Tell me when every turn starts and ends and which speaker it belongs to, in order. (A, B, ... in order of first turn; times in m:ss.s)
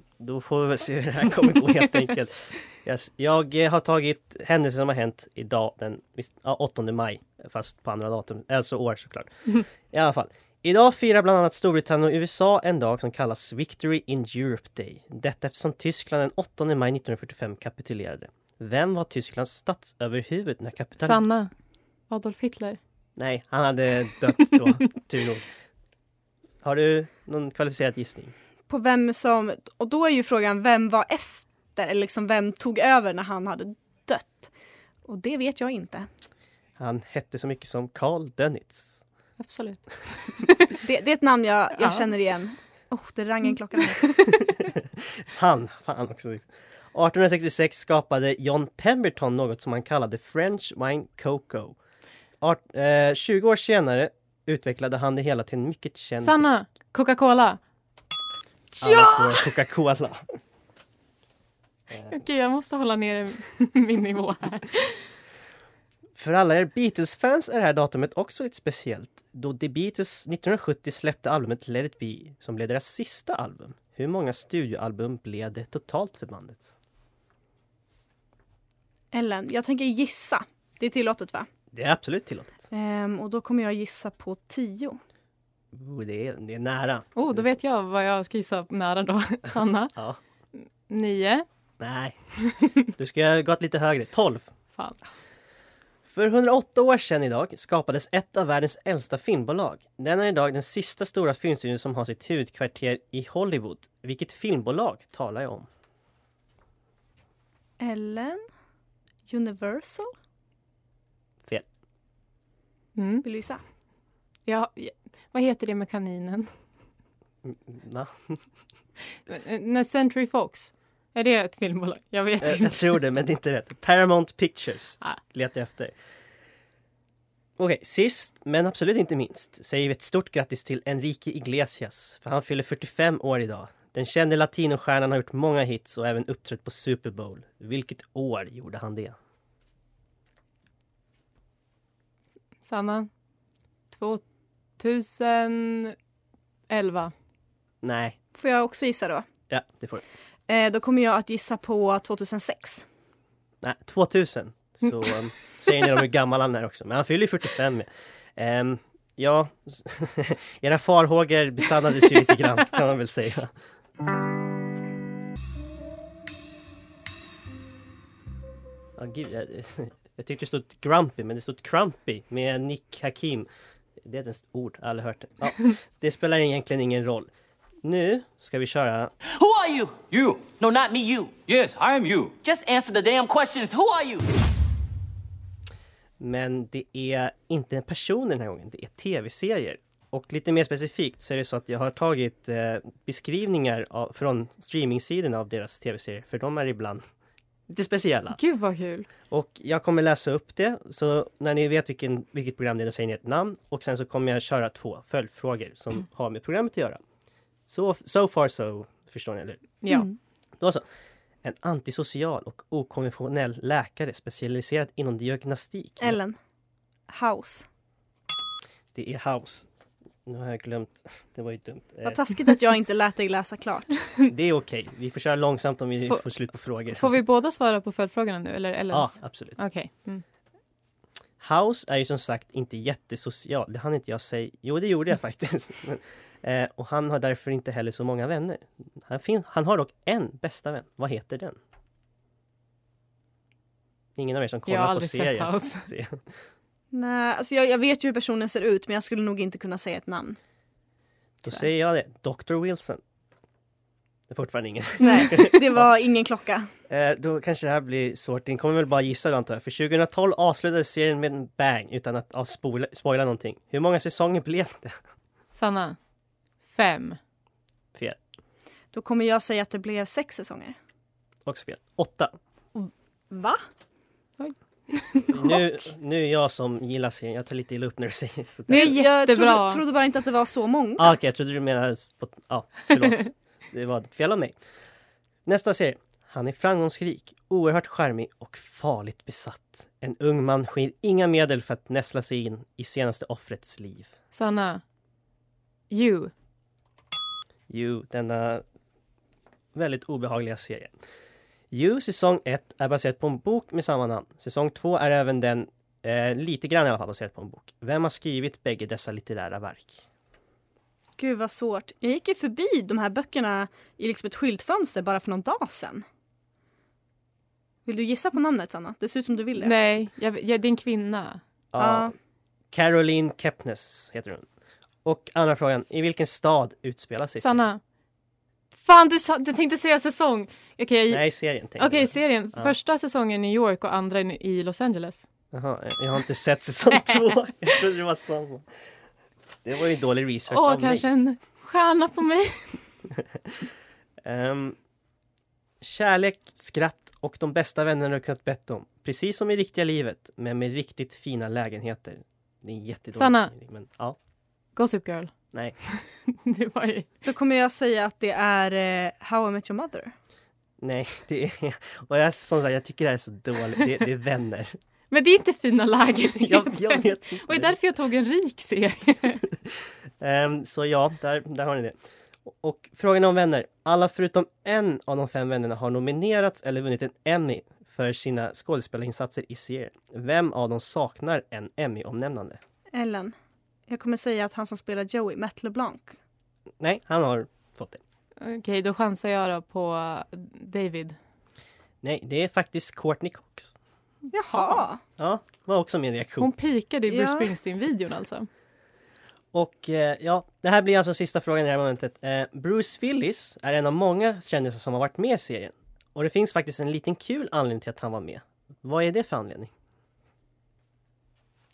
0:00.2-0:21.2 A
0:21.0-0:21.5 B
0:22.1-0:22.8 B
0:23.2-0:25.5 A
0:26.6-0:28.3 A
0:28.7-0:34.5 C
0:35.1-0:36.1 C
0:36.8-0:39.0 A
0:39.4-0:40.7 B
0:40.8-0:44.3 C
0:41.8-0:42.0 B
0:45.3-0:51.8 A
0:52.4-0:56.4 A
0:56.2-0:57.6 B
0:58.8-0:59.4 B
0:58.8-1:00.2 A
1:02.1-1:05.0 B
1:06.2-1:16.7 A
1:19.1-1:21.5 C
1:21.7-1:22.7 A
1:22.7-1:25.0 C
1:25.7-1:27.4 A
1:27.2-1:29.9 B
1:30.9-1:31.4 B
1:31.8-1:32.2 A
1:32.9-1:34.5 A
1:36.1-1:45.7 A
1:47.8-1:48.4 C
1:49.3-1:50.1 C
1:53.0-1:53.2 B
1:53.2-1:53.6 C
1:54.5-1:56.5 B
1:57.4-1:58.4 A
1:59.3-2:02.9 B
2:02.4-2:05.9 A
2:07.6-2:19.1 A
2:22.6-2:23.1 B
2:23.9-2:24.2 B
2:24.8-2:25.9 B
2:26.7-2:27.1 B
2:27.8-2:28.2 A
2:28.3-2:29.2 C
2:29.5-2:30.0 A
2:30.5-2:32.8 C
2:33.6-2:43.5 A
2:49.0-2:53.5 A
2:54.0-2:57.3 A
2:57.8-2:59.1 A
2:59.2-3:04.3 D
3:06.2-3:17.0 A
3:17.7-3:18.4 A
3:18.3-3:19.1 B
3:19.3-3:27.0 A
3:27.7-3:29.7 A
3:31.4-3:36.2 A
3:36.0-3:36.4 C
3:37.1-3:37.6 C
3:38.9-3:39.6 A
3:40.2-3:42.2 A
3:42.0-3:43.9 C
3:44.3-3:47.1 A
3:46.9-3:50.2 B
3:48.9-3:49.6 A
3:51.4-4:01.6 A
4:04.2-4:06.2 A
4:04.7-4:05.8 B
4:06.9-4:10.4 C
4:11.4-4:13.0 A
4:14.3-4:15.9 A
4:15.0-4:16.7 C
4:16.9-4:25.0 A
4:25.5-4:26.0 B
4:26.7-4:27.2 B
4:28.9-4:30.7 C
4:31.4-4:32.3 A
4:32.7-4:33.6 C
4:34.4-4:35.6 B
4:35.3-4:39.0 A
4:38.7-4:39.8 B
4:38.7-4:41.1 C
4:41.0-4:44.5 A
4:45.4-4:54.1 A
4:54.3-4:54.8 B
4:55.9-4:56.3 B
4:57.7-4:58.6 A
4:59.7-5:00.9 A
5:01.7-5:10.0 A
5:11.2-5:16.0 C
5:17.8-5:19.8 C
5:19.6-5:21.4 B
5:21.7-5:22.1 A
5:21.8-5:22.1 C
5:22.7-5:24.4 A
5:25.0-5:27.6 A
5:27.4-5:27.8 B
5:28.7-5:31.2 B
5:31.1-5:32.7 A
5:31.8-5:35.2 B
5:35.5-5:38.6 A
5:39.6-5:41.0 A
5:40.5-5:42.8 B
5:44.2-5:44.8 A
5:45.8-5:54.2 A
5:53.1-5:53.5 B
5:54.8-5:55.3 B
5:55.9-5:57.1 B
5:57.2-6:00.1 C
6:00.8-6:04.8 A
6:05.1-6:09.4 B
6:06.4-6:07.7 A
6:10.2-6:11.9 A
6:12.4-6:22.6 A
6:22.9-6:23.3 C
6:23.9-6:26.2 C
6:26.8-6:28.0 A
6:28.4-6:31.2 B
6:32.0-6:33.7 A
6:34.3-6:35.0 C
6:34.5-6:34.8 B
6:35.2-6:36.5 A
6:36.4-6:38.5 B
6:37.1-6:37.5 C
6:39.5-6:49.7 A